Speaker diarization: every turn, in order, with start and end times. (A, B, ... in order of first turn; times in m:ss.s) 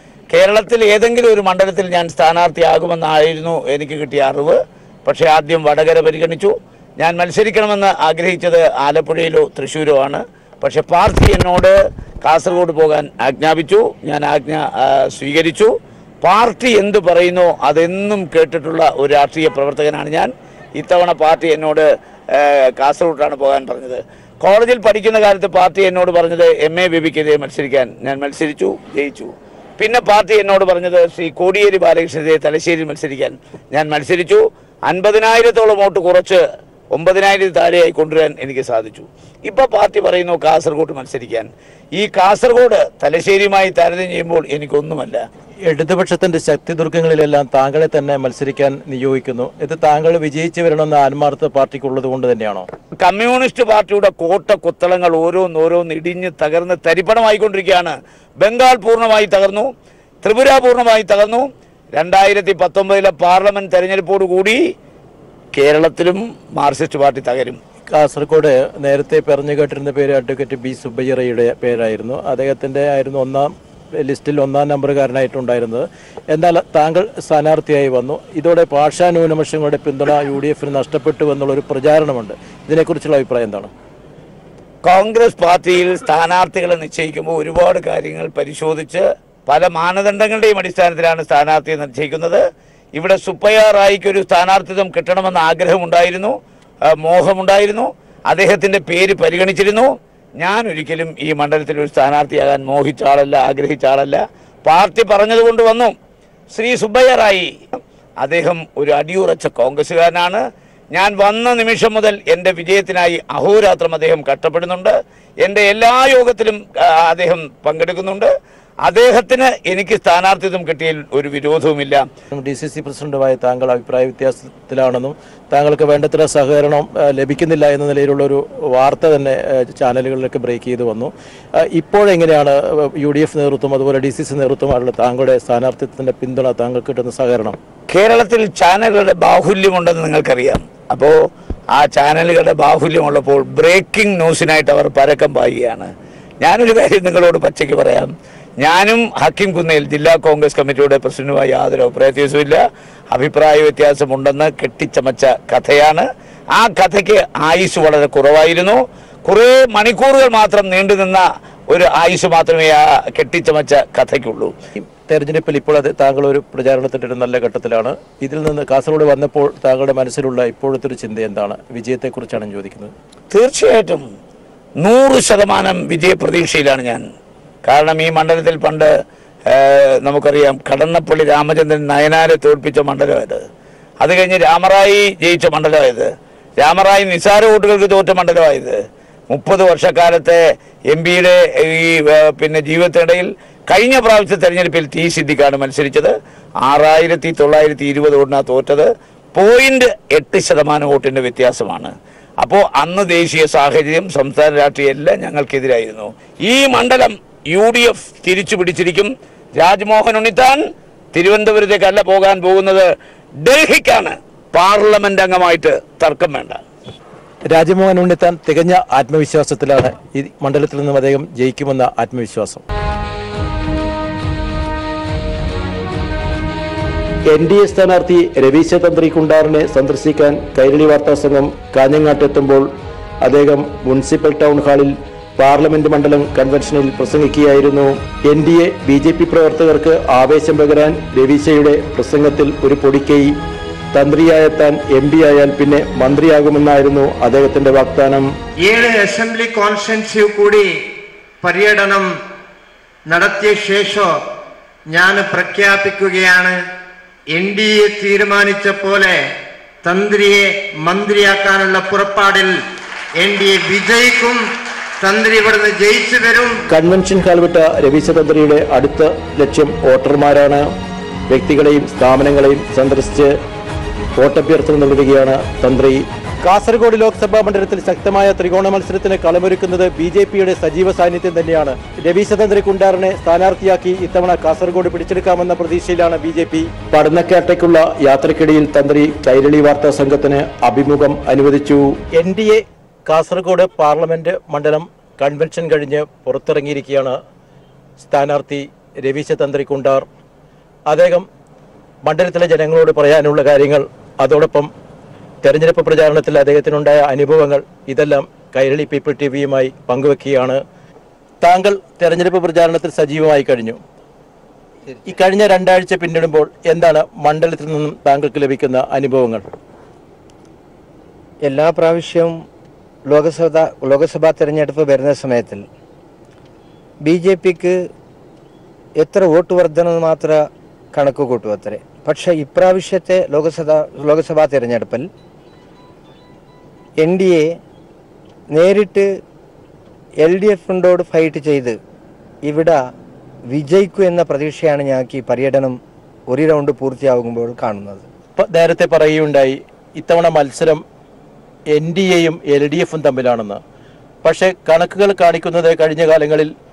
0:00.3-0:45.2 A
0:45.7-0:52.7 B
0:53.0-0:59.7 A
1:00.2-1:04.6 A
1:05.6-1:07.6 A
1:07.9-1:23.7 B
1:24.8-1:32.4 A
1:33.0-1:36.3 A
1:36.9-1:46.0 A
1:46.5-1:58.3 A
1:58.8-2:02.1 A
2:02.3-2:17.6 B
2:17.9-2:21.2 A
2:21.7-2:25.9 A
2:26.4-2:44.5 A
2:44.8-2:52.9 B
2:53.3-2:54.0 A
2:54.8-2:57.0 A
2:57.6-2:58.9 A
2:59.5-3:03.4 A
3:04.0-3:08.8 A
3:09.3-3:10.4 A
3:10.9-3:30.6 A
3:31.1-3:32.9 A
3:33.4-3:36.6 A
3:37.5-3:42.6 B
3:47.3-3:52.7 B
3:53.2-4:03.4 B
4:03.9-4:08.3 B
4:08.6-4:10.9 C
4:11.4-4:12.1 C
4:13.1-4:14.2 C
4:14.9-4:16.6 C
4:17.3-4:19.3 C
4:19.8-4:22.6 C
4:23.2-4:24.5 C
4:25.0-4:26.6 C
4:26.7-4:30.7 B
4:31.3-4:33.4 B
4:34.2-4:57.2 B
4:58.0-5:00.1 B
5:00.9-5:01.3 B
5:02.0-5:04.7 B
5:05.4-5:10.6 B
5:11.4-5:13.8 B
5:15.0-5:19.4 B
5:21.4-5:22.3 D
5:23.1-5:25.6 D
5:27.0-5:27.8 D
5:29.0-5:30.4 D
5:30.9-5:35.1 D
5:37.0-5:37.6 D
5:38.5-5:39.1 D
5:40.2-5:41.8 D
5:42.4-5:42.8 D
5:43.5-5:45.8 D
5:46.3-5:48.1 D
5:48.4-5:50.8 B
5:51.7-5:53.6 B
5:54.2-5:56.5 B